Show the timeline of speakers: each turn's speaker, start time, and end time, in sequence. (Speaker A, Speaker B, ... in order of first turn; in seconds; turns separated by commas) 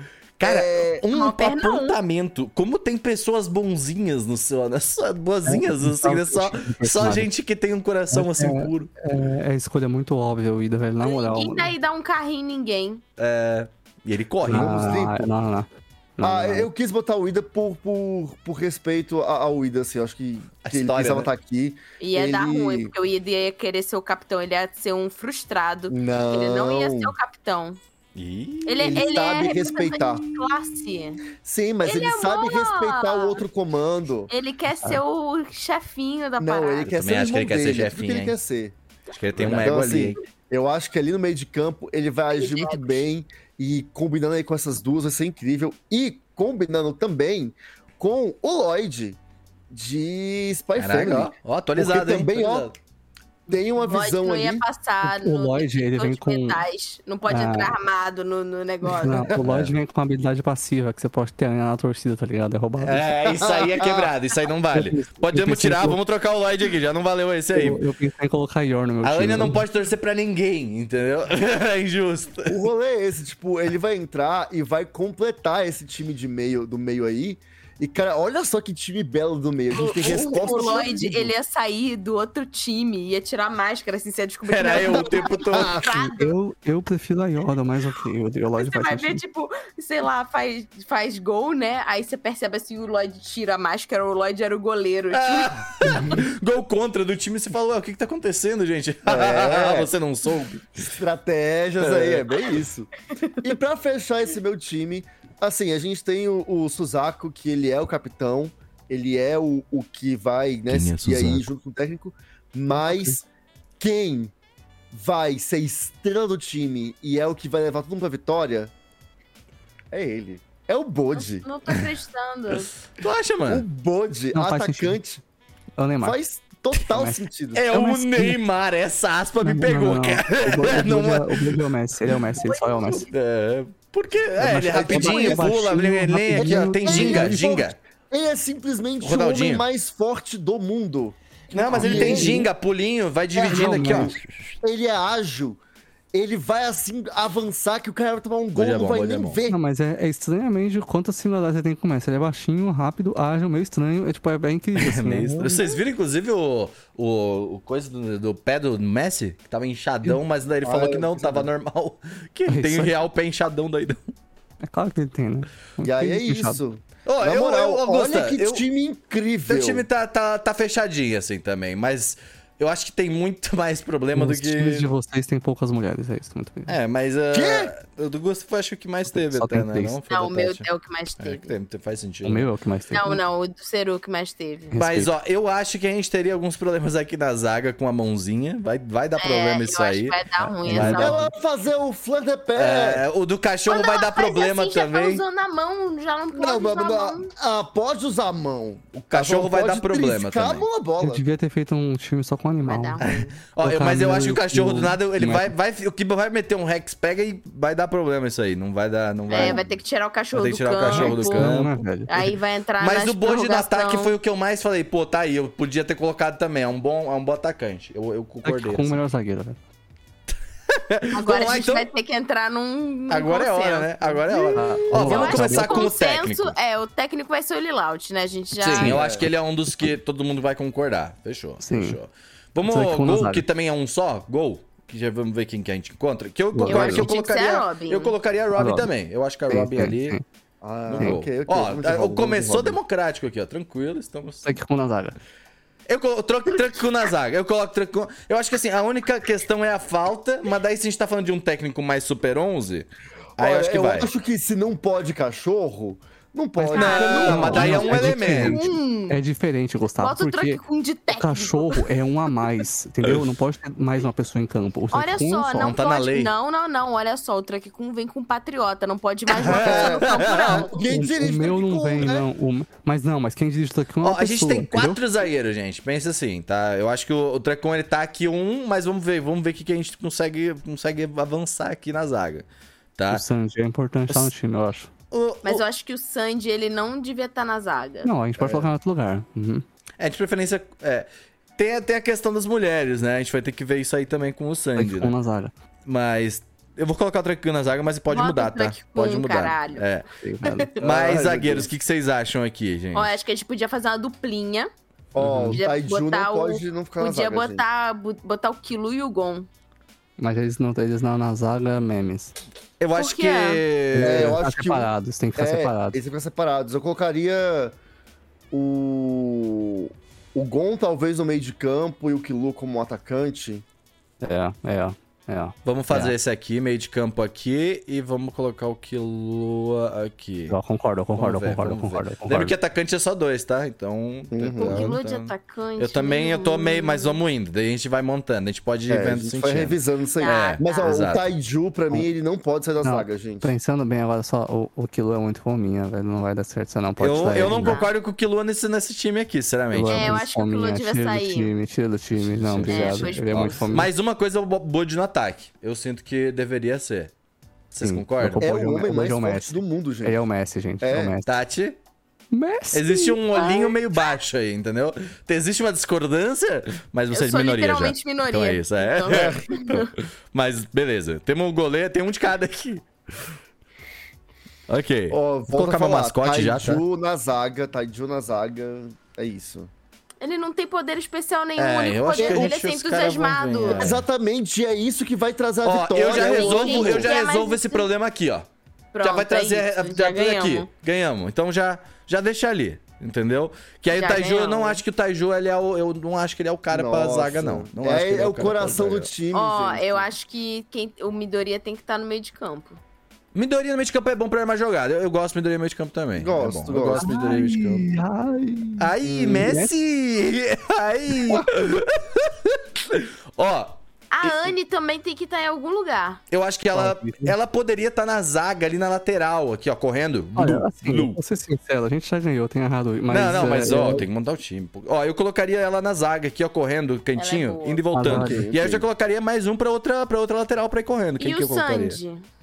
Speaker A: 0.4-8.9, Speaker B: 0.4-1.0, Speaker C: 1.1-2.0, Speaker D: 5.5-7.3, Speaker D: 8.1-11.8, Speaker C: 11.0-13.0, Speaker A: 13.2-15.0, Speaker D: 14.4-16.7, Speaker B: 14.5-15.3, Speaker B: 16.2-22.9, Speaker A: 20.6-21.3, Speaker C: 22.0-27.8, Speaker B: 25.9-27.1, Speaker A: 28.1-29.1, Speaker C: 28.7-31.2, Speaker B: 28.8-30.4, Speaker B: 31.4-34.3, Speaker C: 31.8-33.4, Speaker C: 34.3-36.9, Speaker B: 36.4-38.8, Speaker A: 36.9-38.4, Speaker A: 39.1-40.2, Speaker B: 39.4-49.2, Speaker C: 42.3-43.0, Speaker B: 49.7-52.7, Speaker A: 50.8-52.8, Speaker B: 53.5-54.6, Speaker C: 53.8-59.2, Speaker D: 55.0-56.6, Speaker D: 57.3-57.7, Speaker D: 59.0-63.0, Speaker A: 59.4-59.7, Speaker A: 62.8-67.8, Speaker B: 63.3-64.1, Speaker D: 64.7-66.0, Speaker D: 67.5-69.6, Speaker A: 69.0-72.6, Speaker B: 72.5-81.3, Speaker C: 79.7-86.4, Speaker A: 84.5-85.9, Speaker B: 84.7-85.8, Speaker D: 85.9-89.2, Speaker C: 88.6-96.2, Speaker A: 95.1-100.9, Speaker B: 99.1-99.9, Speaker B: 100.8-102.9, Speaker A: 101.8-102.5, Speaker B: 103.4-113.2, Speaker A: 110.7-111.5, Speaker D: 112.8-113.2, Speaker B: 113.8-114.3, Speaker B: 114.9-118.7, Speaker B: 119.9-121.5, Speaker C: 121.1-122.7, Speaker A: 123.0-123.7, Speaker B: 123.5-125.2, Speaker D: 124.3-125.0, Speaker D: 125.8-126.2, Speaker B: 126.0-127.6, Speaker D: 126.8-128.4, Speaker A: 127.5-131.7, Speaker D: 129.4-133.1, Speaker C: 132.4-133.1, Speaker A: 133.0-137.8, Speaker D: 134.4-137.4, Speaker B: 134.6-135.6, Speaker B: 136.3-141.2, Speaker A: 139.0-139.7, Speaker A: 141.5-144.6, Speaker D: 141.7-142.5, Speaker B: 141.7-142.5, Speaker B: 143.3-145.6, Speaker D: 143.4-144.2, Speaker B: 146.1-149.6, Speaker A: 148.6-149.4, Speaker D: 149.5-155.7, Speaker A: 154.8-164.1, Speaker B: 160.6-161.5, Speaker D: 162.5-162.9, Speaker D: 164.6-166.6, Speaker B: 165.8-169.9, Speaker A: 167.1-168.7, Speaker A: 169.5-174.9, Speaker D: 174.2-176.8, Speaker A: 176.7-180.7, Speaker B: 177.3-177.7, Speaker D: 179.1-180.0, Speaker C: 180.1-181.5, Speaker A: 181.2-182.5, Speaker D: 182.2-183.2, Speaker C: 182.9-184.8, Speaker D: 184.7-185.1, Speaker A: 184.8-191.2, Speaker C: 189.2-191.2, Speaker D: 190.6-191.3, Speaker B: 191.0-193.0, Speaker A: 192.6-195.2, Speaker C: 193.7-197.3, Speaker B: 196.3-201.2, Speaker A: 199.1-200.7, Speaker D: 201.0-203.0, Speaker C: 202.7-203.3, Speaker A: 203.0-209.8, Speaker D: 203.6-205.5, Speaker C: 209.3-214.2, Speaker A: 210.3-212.3, Speaker D: 210.9-212.1, Speaker A: 212.8-219.0, Speaker D: 218.4-219.6, Speaker A: 220.7-221.9, Speaker C: 221.1-229.0, Speaker A: 223.1-226.6, Speaker D: 224.5-225.9, Speaker A: 228.6-240.2, Speaker D: 228.7-229.9, Speaker B: 228.9-229.3, Speaker D: 231.6-232.0, Speaker D: 232.6-233.4, Speaker D: 236.5-237.1, Speaker C: 236.7-238.2, Speaker D: 238.6-238.9, Speaker D: 239.5-240.2, Speaker B: 240.6-242.8, Speaker A: 240.9-244.5, Speaker D: 244.4-245.2, Speaker A: 245.9-254.1, Speaker B: 253.4-257.9, Speaker D: 256.6-265.7, Speaker C: 256.7-259.2, Speaker A: 256.7-258.7, Speaker C: 260.0-261.9, Speaker C: 264.9-270.9, Speaker A: 265.6-266.3, Speaker A: 269.3-270.7, Speaker B: 269.4-272.3, Speaker D: 270.9-275.0, Speaker A: 274.0-283.2, Speaker D: 283.1-284.9, Speaker A: 285.1-285.6, Speaker C: 285.4-288.1, Speaker D: 288.0-289.6, Speaker B: 288.4-288.7, Speaker A: 290.0-295.1, Speaker D: 294.8-295.5, Speaker A: 295.9-300.1, Speaker C: 298.1-299.9, Speaker D: 300.2-300.7, Speaker A: 300.7-303.1, Speaker B: 300.8-301.7, Speaker C: 302.9-304.7, Speaker B: 305.1-307.6, Speaker D: 305.2-305.6, Speaker C: 305.6-309.5, Speaker D: 310.2-312.4, Speaker A: 312.8-314.4, Speaker C: 313.0-313.6, Speaker D: 313.9-316.0, Speaker B: 314.0-317.8, Speaker B: 318.5-323.6, Speaker D: 324.2-326.1, Speaker A: 325.6-330.6, Speaker D: 330.5-332.6, Speaker A: 331.2-341.3, Speaker B: 334.3-334.9, Speaker C: 334.6-337.2, Speaker B: 338.9-343.5, Speaker C: 340.2-340.9, Speaker D: 342.8-347.8, Speaker A: 347.0-350.2, Speaker C: 347.5-347.9, Speaker D: 349.7-353.9, Speaker C: 349.9-351.5, Speaker A: 352.1-357.1, Speaker C: 352.7-353.6, Speaker A: 357.7-358.5, Speaker D: 357.8-361.3, Speaker B: 358.4-360.2, Speaker B: 360.8-361.2, Speaker A: 361.3-361.8, Speaker D: 362.3-363.2, Speaker A: 362.7-372.9, Speaker C: 363.3-363.8, Speaker C: 367.1-369.9, Speaker B: 369.1-369.5, Speaker A: 374.7-376.8, Speaker B: 375.1-379.7, Speaker C: 380.2-383.9, Speaker A: 381.6-384.1, Speaker B: 382.2-382.5, Speaker B: 383.8-387.1, Speaker A: 385.6-388.5, Speaker C: 386.1-387.9, Speaker C: 388.9-390.7, Speaker A: 389.0-399.1, Speaker C: 393.9-394.8, Speaker B: 396.7-400.1, Speaker C: 399.3-402.8, Speaker A: 403.3-408.0, Speaker B: 406.1-407.1, Speaker D: 407.0-409.7, Speaker A: 408.8-414.5, Speaker B: 409.0-409.5, Speaker D: 411.1-411.5, Speaker C: 414.1-416.2, Speaker A: 416.3-421.2, Speaker D: 416.7-417.4, Speaker D: 420.4-424.1, Speaker A: 423.1-432.0, Speaker C: 427.2-427.8, Speaker D: 427.9-428.5, Speaker B: 428.1-428.9, Speaker C: 431.2-432.2